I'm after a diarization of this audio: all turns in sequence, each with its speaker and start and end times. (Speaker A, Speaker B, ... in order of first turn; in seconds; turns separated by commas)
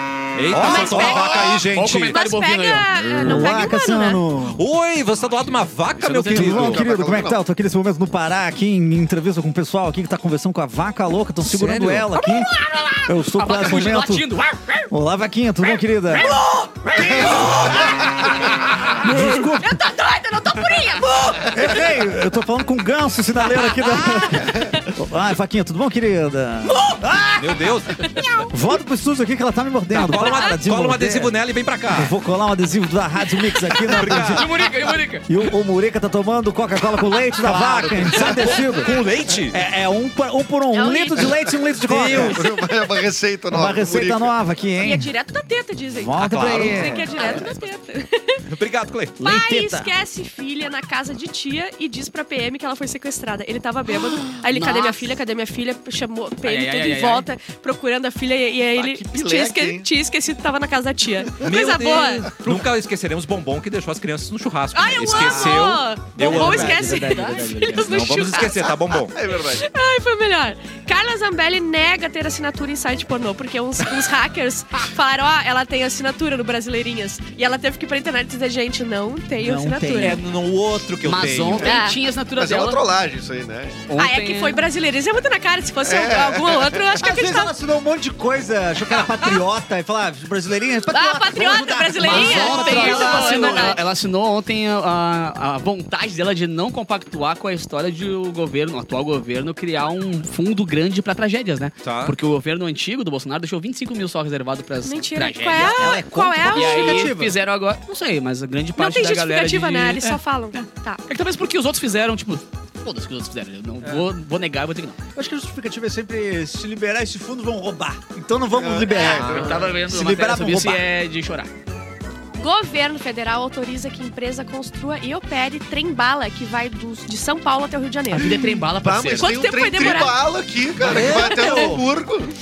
Speaker A: 0.3-2.2, Speaker B: 0.5-1.2, Speaker C: 0.5-4.2, Speaker D: 0.6-2.9, Speaker B: 3.2-4.6, Speaker A: 3.2-3.6, Speaker A: 4.5-6.8, Speaker E: 6.0-7.4, Speaker D: 6.0-6.4, Speaker B: 6.2-14.3, Speaker A: 11.4-12.1, Speaker D: 12.1-14.9, Speaker B: 14.9-16.4, Speaker D: 16.3-21.6, Speaker B: 16.9-19.7, Speaker C: 20.6-21.2, Speaker B: 21.5-27.7, Speaker A: 27.4-28.2, Speaker C: 28.1-28.4, Speaker B: 28.5-31.3, Speaker A: 29.9-32.1, Speaker C: 30.1-30.6, Speaker B: 31.9-34.5, Speaker A: 33.8-34.5, Speaker D: 34.1-35.3, Speaker B: 35.2-42.4, Speaker A: 37.4-39.6, Speaker C: 40.7-41.5, Speaker A: 41.8-42.4, Speaker E: 42.1-44.4, Speaker B: 43.5-45.1, Speaker C: 44.8-48.4, Speaker B: 45.9-47.4, Speaker A: 46.1-47.4, Speaker D: 47.1-47.5, Speaker A: 48.5-49.2, Speaker B: 49.2-49.9, Speaker C: 49.2-62.4, Speaker D: 54.5-55.0, Speaker D: 56.4-57.3, Speaker E: 58.7-59.9, Speaker A: 61.4-67.1, Speaker C: 64.7-68.7, Speaker B: 65.2-68.0, Speaker A: 67.7-69.2, Speaker E: 68.6-69.7, Speaker C: 69.5-80.2, Speaker B: 79.4-80.2, Speaker A: 80.0-81.8, Speaker D: 81.0-82.8, Speaker C: 81.6-82.0, Speaker E: 82.3-83.9, Speaker D: 83.9-84.7, Speaker C: 83.9-87.5, Speaker E: 85.8-87.0, Speaker B: 87.0-93.7, Speaker C: 90.9-93.8, Speaker D: 92.0-106.0, Speaker A: 101.8-102.2, Speaker C: 104.8-107.1, Speaker B: 105.6-107.4, Speaker D: 106.5-115.0, Speaker C: 108.8-111.0, Speaker B: 115.1-120.8, Speaker E: 118.5-119.7, Speaker D: 118.9-121.5, Speaker C: 122.4-128.6, Speaker D: 128.1-129.4, Speaker E: 128.7-132.3, Speaker C: 129.2-130.2, Speaker A: 130.8-131.8, Speaker B: 130.9-131.6, Speaker C: 131.1-131.8